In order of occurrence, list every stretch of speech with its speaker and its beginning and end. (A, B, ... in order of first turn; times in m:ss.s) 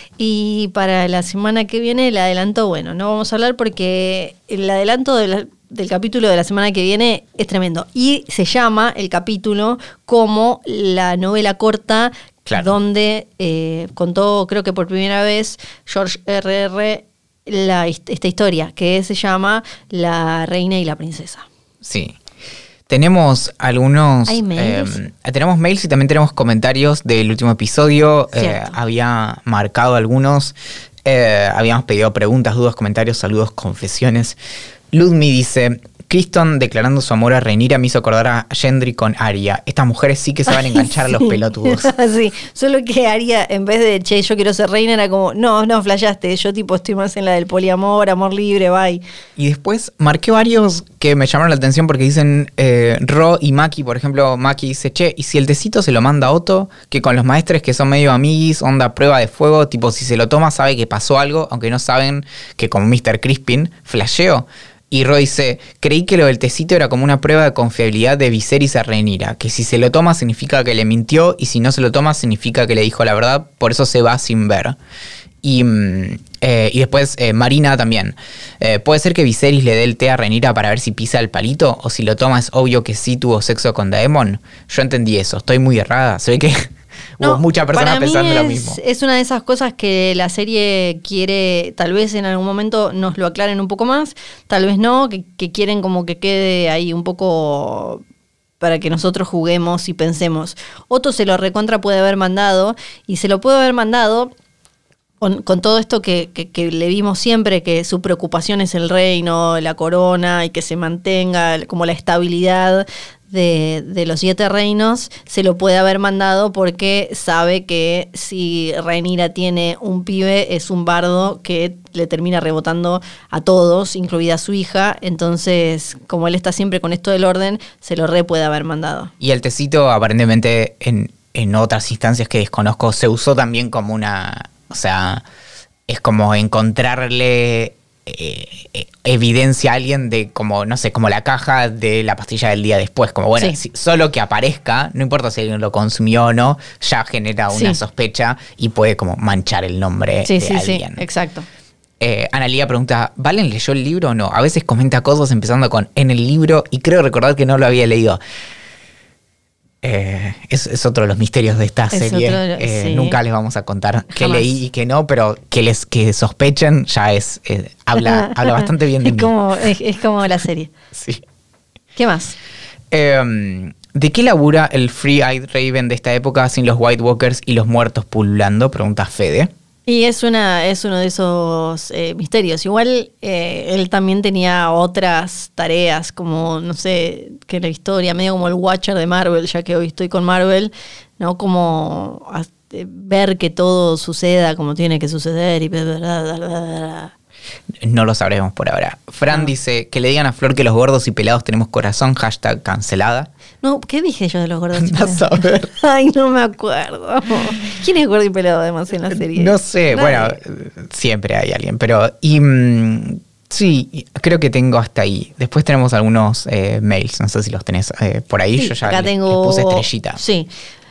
0:00.2-0:21.4 A
0:12.4-0:12.7 B
0:21.8-0:22.2 B
0:22.9-0:34.4 B
0:24.3-0:25.0 A
0:28.3-0:28.8 A
0:34.9-0:41.9 B
0:40.5-0:49.0 A
0:49.4-1:14.8 B
1:15.4-1:28.8 B
1:27.2-1:38.0 A
1:38.6-1:44.3 A
1:45.2-2:09.1 A
2:09.2-2:15.2 B
2:15.9-2:31.0 B
2:27.5-2:27.8 A
2:30.2-2:31.5 A
2:32.0-2:38.2 B
2:39.8-2:49.3 B
2:41.9-2:43.2 A
2:44.1-2:44.5 A
2:48.0-2:50.7 A
2:50.9-2:51.2 B
2:52.0-2:52.4 A
2:52.9-2:59.5 B
2:59.9-3:17.1 A
3:17.8-3:23.3 B
3:23.6-3:30.4 A
3:24.7-3:25.7 B
3:29.1-3:40.2 B
3:38.6-3:40.5 A